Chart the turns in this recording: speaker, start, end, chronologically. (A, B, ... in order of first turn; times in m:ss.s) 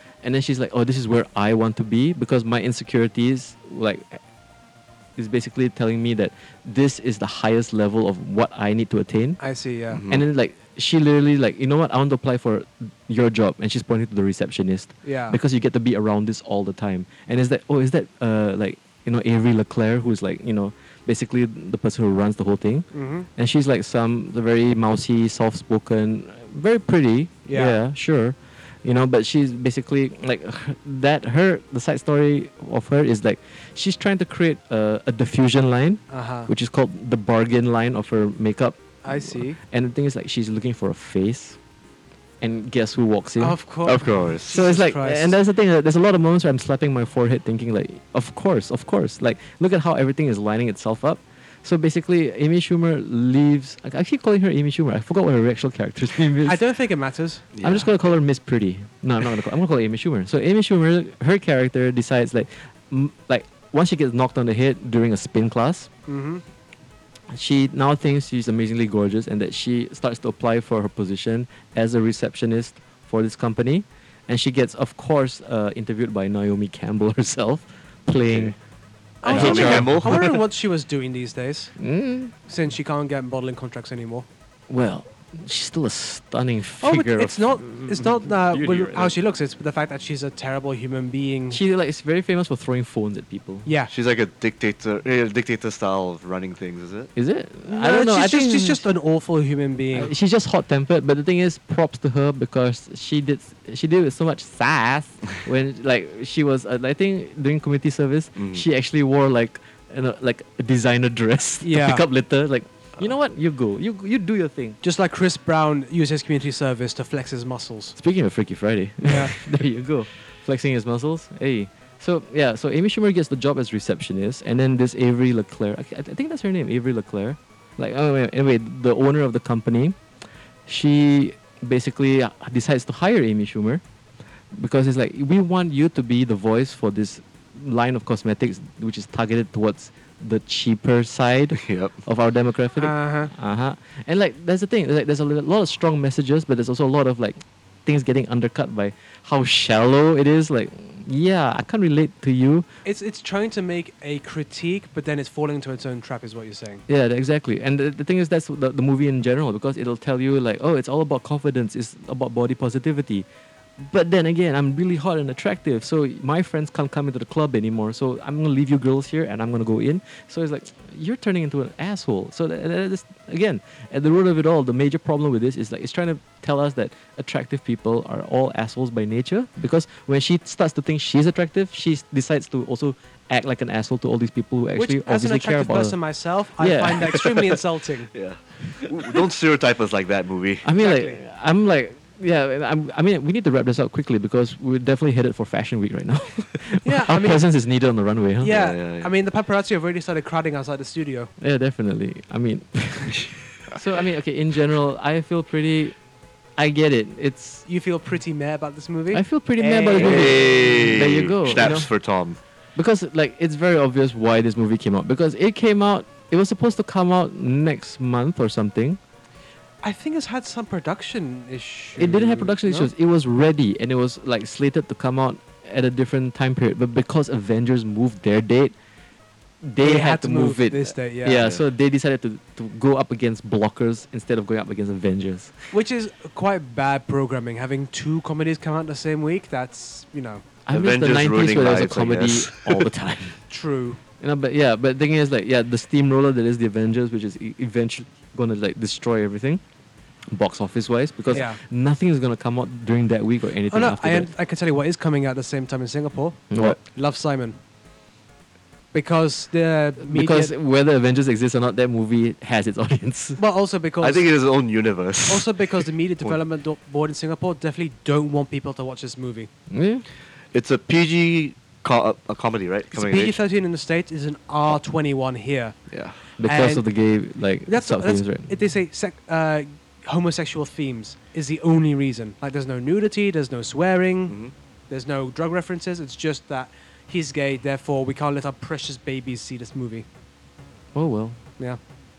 0:00.2-0:04.2 A
0:05.2-0:09.4 A
0:09.4-0:10.0 B
0:09.9-0:10.2 C
0:10.1-0:41.6 A
0:15.0-0:15.4 B
0:22.9-0:23.3 B
0:27.5-0:27.8 B
0:36.1-0:36.5 B
0:39.0-0:39.6 B
0:42.4-0:43.6 A
0:43.4-0:45.3 B
0:43.8-0:44.6 C
0:44.5-0:56.6 A
0:56.4-0:57.5 B
0:57.5-0:57.9 C
0:57.6-1:05.9 A
1:06.1-1:06.4 B
1:07.3-1:18.6 A
1:19.2-1:21.7 B
1:19.2-1:20.2 C
1:19.2-1:20.4 A
1:21.8-1:22.3 A
1:22.5-1:24.2 B
1:24.7-1:29.2 A
1:26.8-1:31.6 B
1:31.5-1:33.7 A
1:33.6-1:33.9 B
1:33.9-1:37.1 C
1:37.2-1:38.8 A
1:37.7-1:40.1 B
1:39.9-1:54.8 A
1:48.4-1:48.6 C
1:51.6-1:52.0 B
1:54.8-1:58.0 B
1:58.0-2:10.0 A
1:59.0-1:59.4 B
2:10.7-2:13.8 A
2:14.5-2:32.6 A
2:21.6-2:21.9 C
2:22.8-2:23.3 B
2:32.8-2:36.8 B
2:36.9-2:43.2 A
2:43.8-3:06.0 A
3:04.8-3:08.1 B
3:06.6-3:07.5 A
3:08.1-3:10.6 C
3:10.6-3:18.6 A
3:10.8-3:11.2 B
3:16.8-3:17.4 B
3:18.4-3:21.3 B
3:18.5-3:19.1 C
3:21.4-3:25.9 A
3:26.6-3:27.6 A
3:27.7-3:30.9 B
3:29.1-3:31.9 A
3:30.0-3:32.4 C
3:32.7-3:39.0 A
3:39.8-3:42.9 B
3:42.0-3:48.7 A
3:49.6-3:55.5 A
3:49.8-3:51.4 B
3:51.3-3:51.6 C
3:55.7-4:00.4 B
4:00.6-4:03.4 A
4:00.7-4:02.9 C
4:03.5-4:04.0 B
4:04.2-4:09.6 A
4:10.3-4:14.3 A
4:11.3-4:11.6 B
4:13.7-4:17.6 B
4:16.5-4:16.8 A
4:18.9-4:20.5 B
4:20.0-4:23.4 A
4:23.4-4:24.3 B
4:24.0-4:26.4 C
4:25.3-4:29.5 B
4:29.7-4:30.0 A
4:30.5-4:33.4 C
4:32.9-4:35.8 B
4:35.9-4:36.2 C
4:36.4-4:38.5 A
4:36.4-4:36.8 B
4:37.7-4:44.4 B
4:44.9-4:50.0 B
4:50.9-4:51.4 A